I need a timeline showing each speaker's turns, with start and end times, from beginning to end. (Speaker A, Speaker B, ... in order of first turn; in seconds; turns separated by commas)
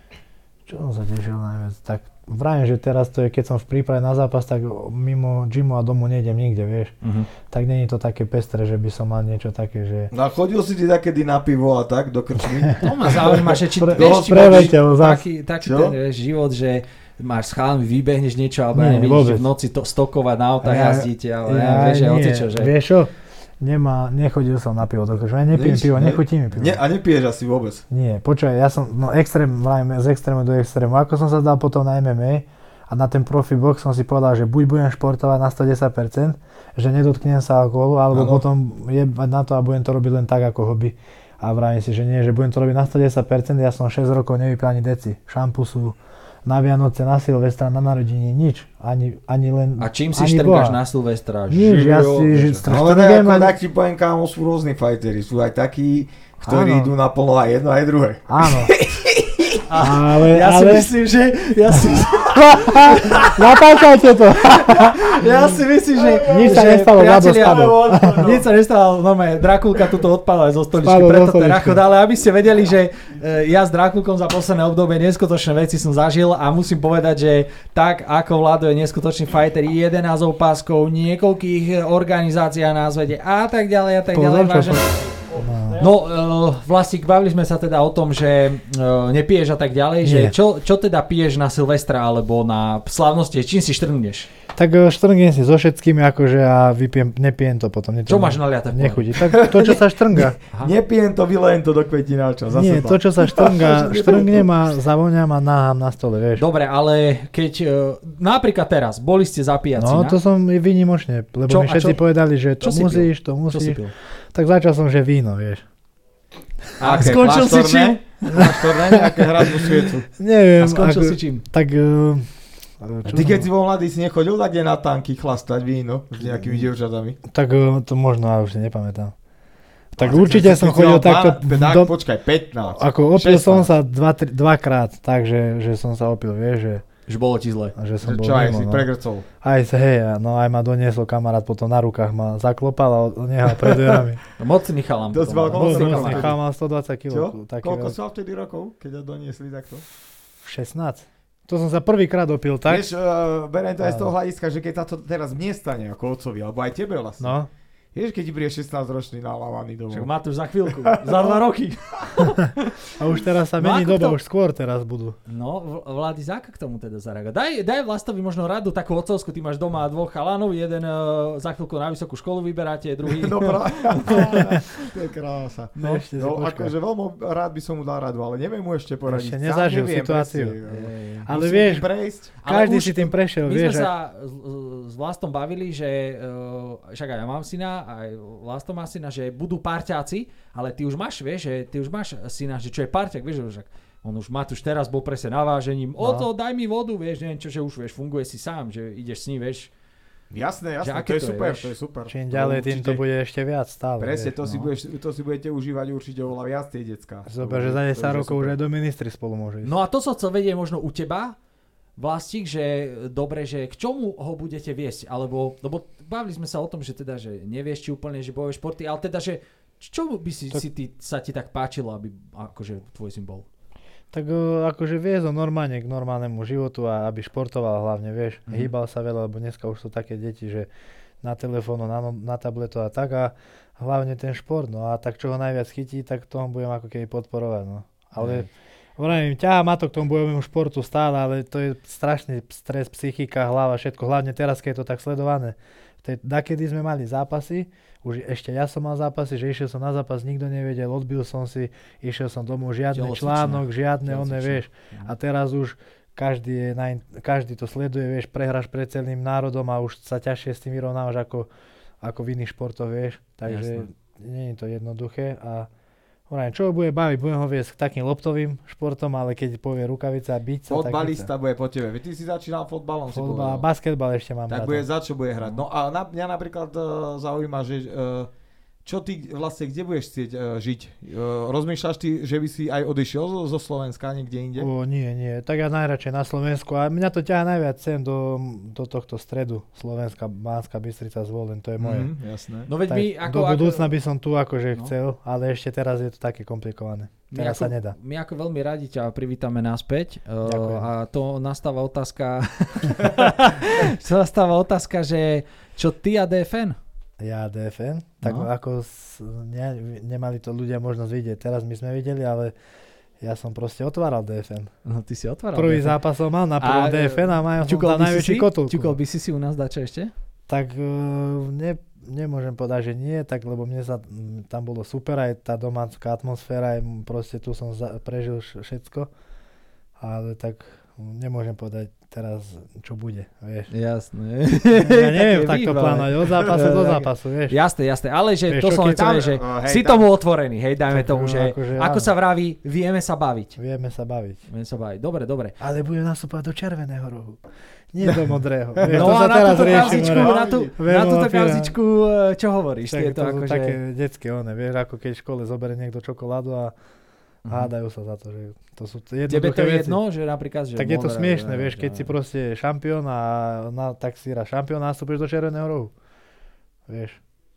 Speaker A: 0.7-6.9, Speaker B: 7.0-7.3, Speaker A: 7.5-10.1, Speaker C: 10.1-14.7, Speaker B: 12.8-22.7, Speaker A: 13.8-15.2, Speaker C: 15.6-15.9, Speaker A: 18.7-19.5, Speaker A: 20.6-26.8, Speaker C: 25.5-27.8, Speaker A: 27.9-50.8, Speaker C: 38.1-38.4, Speaker B: 49.8-52.6, Speaker A: 51.5-53.6, Speaker C: 51.6-59.4, Speaker A: 56.4-56.9, Speaker A: 58.3-58.8, Speaker B: 59.6-63.6, Speaker A: 59.8-60.9, Speaker A: 61.7-65.5, Speaker B: 64.4-85.1, Speaker C: 66.0-68.4, Speaker A: 66.2-68.4, Speaker A: 70.8-71.8, Speaker A: 84.1-85.8, Speaker B: 85.8-94.3, Speaker A: 90.0-90.3, Speaker A: 94.5-100.4, Speaker B: 98.1-99.1, Speaker C: 99.2-104.5, Speaker A: 102.5-106.4, Speaker B: 106.3-110.2, Speaker A: 109.8-113.8, Speaker B: 111.5-112.0, Speaker B: 112.6-113.9, Speaker A: 114.3-115.6, Speaker B: 116.8-118.0, Speaker C: 116.8-120.1, Speaker A: 118.2-122.3, Speaker B: 120.6-121.4, Speaker A: 122.8-123.5, Speaker C: 123.1-127.2, Speaker A: 126.2-126.7, Speaker A: 127.3-129.1, Speaker A: 129.9-131.9, Speaker C: 130.0-133.7, Speaker A: 132.7-136.8, Speaker B: 137.1-137.7, Speaker A: 137.8-138.9, Speaker C: 138.0-139.2, Speaker A: 139.4-144.2, Speaker C: 143.6-144.0, Speaker B: 144.4-146.3, Speaker C: 145.1-146.4, Speaker A: 145.5-148.0, Speaker C: 147.1-149.8, Speaker A: 150.4-152.9, Speaker C: 152.7-157.3, Speaker A: 153.8-154.1, Speaker A: 157.2-157.5, Speaker C: 157.9-160.1, Speaker B: 159.9-162.9, Speaker C: 160.7-161.3, Speaker A: 162.9-165.2, Speaker B: 163.6-164.2, Speaker B: 165.3-174.4, Speaker C: 173.1-182.3, Speaker A: 174.2-174.5, Speaker A: 175.8-176.7, Speaker A: 179.1-180.6, Speaker B: 180.7-181.3, Speaker A: 181.2-181.9, Speaker B: 182.4-199.7, Speaker A: 182.4-183.9, Speaker A: 196.0-196.3, Speaker C: 200.3-203.0, Speaker B: 200.8-201.7, Speaker A: 202.1-204.4, Speaker C: 204.0-208.5, Speaker B: 204.4-204.7, Speaker A: 207.3-209.7, Speaker B: 209.6-211.3, Speaker B: 212.0-223.4, Speaker A: 224.1-230.7, Speaker A: 231.2-261.5, Speaker B: 238.2-238.5, Speaker B: 252.9-255.1, Speaker A: 262.0-265.7, Speaker B: 263.4-263.9, Speaker A: 266.3-271.3, Speaker C: 270.7-273.6, Speaker A: 273.1-274.9, Speaker C: 274.5-278.3, Speaker C: 278.8-284.7, Speaker A: 284.6-292.1, Speaker C: 291.8-292.7, Speaker B: 292.7-293.9, Speaker A: 292.9-297.9, Speaker B: 297.3-306.8, Speaker A: 300.4-300.9, Speaker A: 307.2-312.5, Speaker B: 308.2-308.5, Speaker A: 313.2-314.7, Speaker B: 314.8-316.0, Speaker A: 315.5-319.0, Speaker B: 316.6-320.1, Speaker A: 320.5-329.1, Speaker A: 330.0-333.7, Speaker B: 333.7-343.6, Speaker A: 334.7-337.6, Speaker A: 338.5-339.2, Speaker C: 339.1-340.0, Speaker A: 340.9-342.1, Speaker A: 343.6-344.4, Speaker B: 344.5-345.6, Speaker A: 345.6-347.4, Speaker A: 347.9-351.7, Speaker C: 348.0-350.7, Speaker B: 348.9-353.8, Speaker A: 352.9-356.7, Speaker B: 357.4-357.7, Speaker A: 357.5-360.0, Speaker B: 359.3-362.1, Speaker A: 360.8-365.9, Speaker A: 366.9-367.2